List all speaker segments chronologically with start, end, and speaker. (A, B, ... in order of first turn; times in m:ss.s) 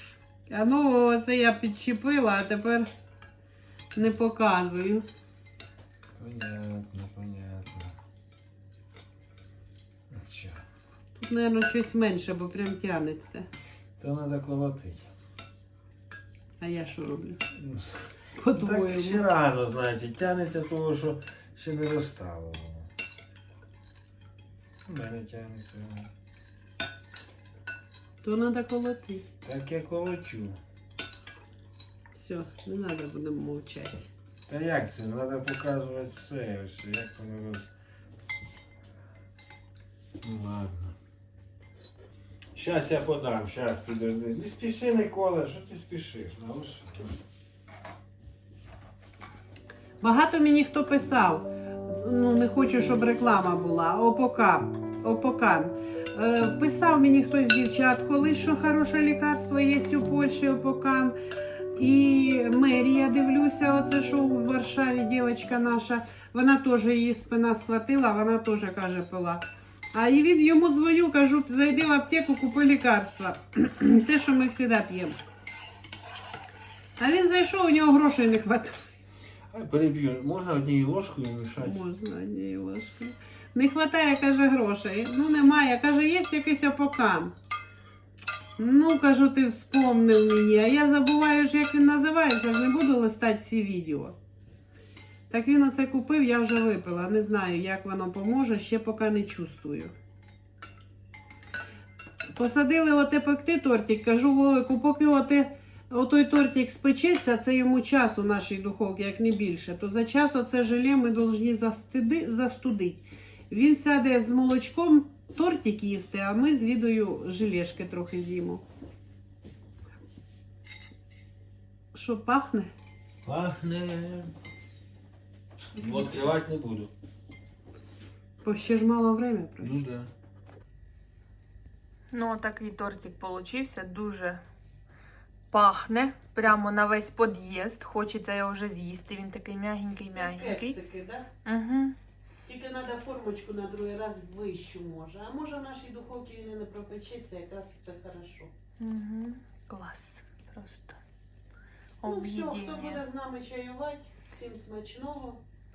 0:00.5-0:02.9 A
0:03.9-0:05.0 A
0:06.2-0:07.9 B
0:10.1-0:10.6 B
0:11.1-0:13.5 A
0:14.0-0:15.1 B
0:16.6-0:17.4 A
0:17.5-0:18.0 B
0:18.4-0:19.2 A
0:18.5-0:22.9 B
0:24.8-0:26.1 B
0:28.2-0:29.2 A
0:29.4-0:30.6 B
0:32.1-0:34.1 A
0:34.5-0:37.7 B
0:40.2-0:40.9 B
0:42.5-0:47.2 B
0:50.0-1:01.2 A
1:01.7-1:15.2 A
1:17.0-1:18.9 A
1:19.5-1:21.8 B
1:21.6-1:27.3 A
1:28.6-1:34.1 A
1:35.3-1:39.9 A
1:42.3-1:58.6 A
2:01.9-2:02.7 A
2:03.2-2:04.3 B
2:05.8-2:06.9 B
2:08.4-2:09.8 A
2:09.6-2:10.1 B
2:12.1-2:14.4 C
2:15.5-2:20.8 C
2:20.1-2:21.3 A
2:21.4-2:22.0 C
2:22.5-2:28.5 A
2:28.8-2:31.0 C
2:32.0-2:33.0 C
2:32.0-2:35.4 A